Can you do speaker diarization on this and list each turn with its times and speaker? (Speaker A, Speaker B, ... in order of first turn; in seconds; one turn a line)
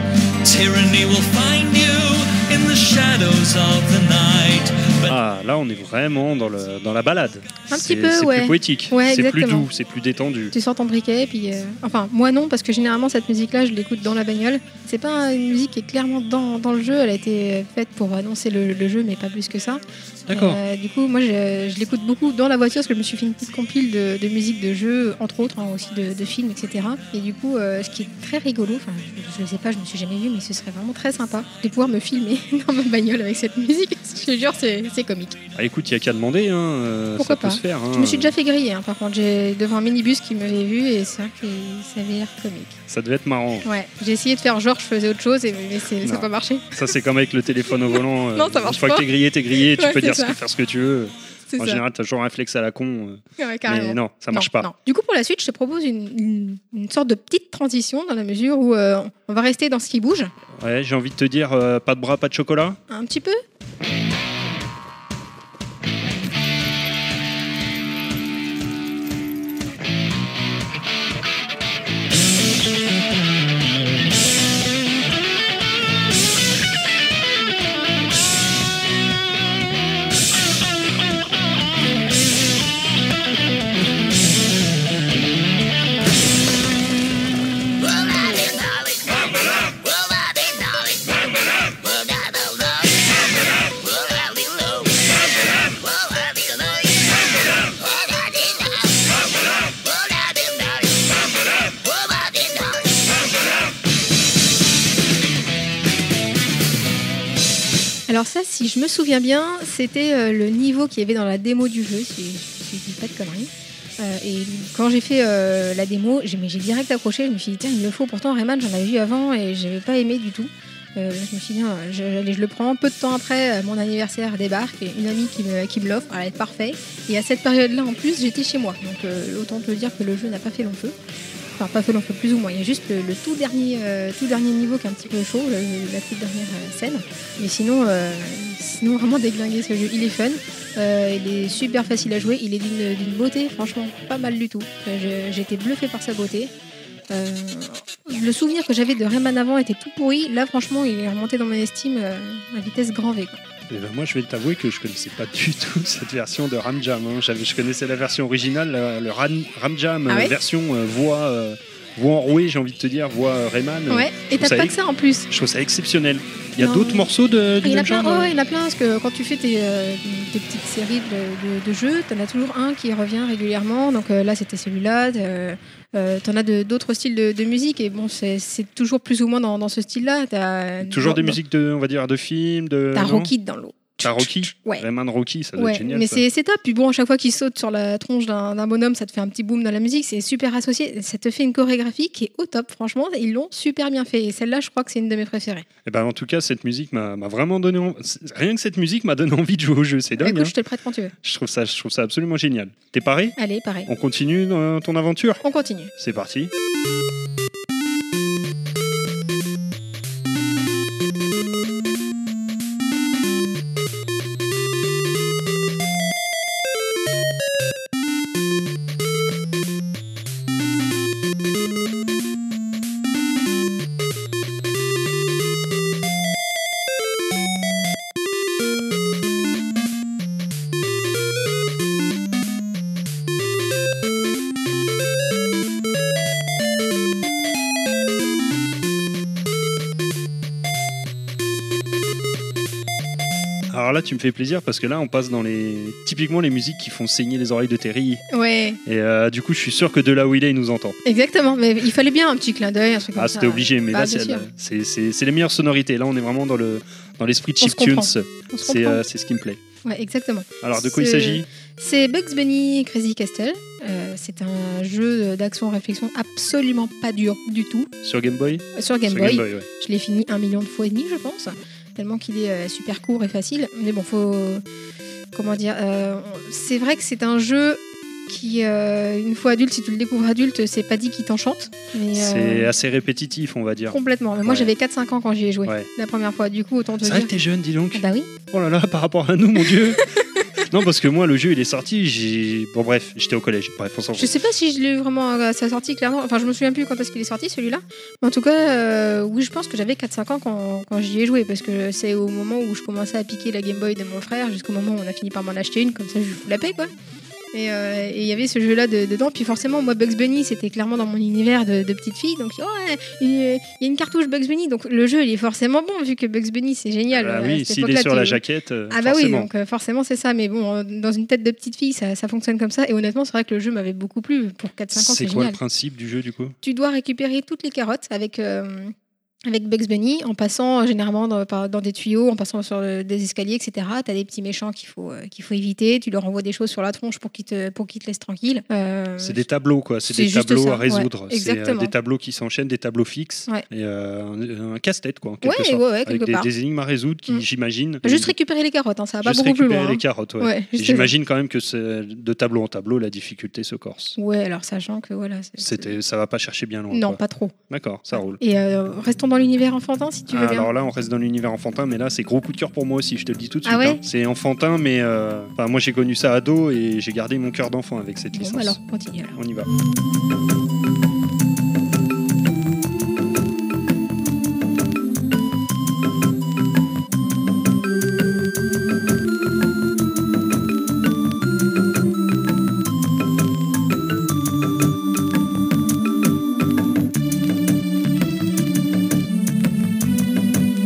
Speaker A: 0.4-5.2
Speaker B: 5.1-10.5
Speaker C: 7.7-9.7
Speaker C: 10.5-35.4
Speaker B: 20.3-20.6
Speaker B: 35.5-38.3
Speaker C: 37.2-42.8
Speaker B: 42.9-43.7
Speaker C: 43.6-46.9
Speaker B: 46.0-54.7
Speaker C: 47.9-50.4
Speaker C: 51.5-51.8
Speaker C: 53.4-60.3
Speaker B: 60.6-62.8
Speaker C: 62.9-63.4
Speaker C: 108.1-130.9
Speaker C: 131.6-146.5
Speaker C: 147.1-153.4
Speaker B: 153.7-164.8
Speaker C: 160.1-160.4
Speaker C: 163.9-165.3
Speaker B: 165.3-168.3
Speaker C: 166.6-167.1
Speaker C: 167.6-181.4
Speaker B: 180.8-183.3
Speaker C: 182.9-184.8
Speaker B: 184.0-186.2
Speaker C: 185.6-195.7
Speaker B: 195.8-200.6
Speaker C: 200.2-201.1
Speaker B: 201.2-205.4
Speaker C: 203.4-203.9
Speaker C: 205.4-205.9
Speaker B: 206.0-206.5
Speaker B: 243.7-248.2
Speaker C: 248.3-248.8
Speaker B: 248.8-251.0
Speaker C: 251.1-254.5
Speaker B: 253.2-259.6
Speaker C: 257.6-259.0
Speaker C: 259.9-267.9
Speaker B: 260.6-261.5
Speaker B: 268.0-269.7
Speaker C: 268.8-274.6
Speaker C: 275.3-282.7
Speaker B: 282.1-284.7
Speaker C: 283.9-287.3
Speaker B: 287.0-290.1
Speaker C: 287.9-288.3
Speaker C: 290.2-290.5
Speaker B: 290.7-294.4
Speaker C: 294.2-306.9
Speaker C: 307.5-325.6
Speaker B: 317.1-319.5
Speaker B: 324.9-326.6
Speaker C: 326.6-328.9
Speaker C: 329.5-339.4
Speaker B: 339.2-348.3
Speaker C: 340.1-341.9
Speaker C: 345.4-346.5
Speaker C: 348.0-351.1
Speaker B: 349.2-354.2
Speaker C: 354.2-356.0
Speaker B: 355.6-358.4
Speaker C: 356.9-357.6
Speaker C: 358.1-360.7
Speaker B: 360.3-368.8
Speaker C: 363.6-364.0
Speaker C: 368.3-369.4
Speaker B: 369.3-369.7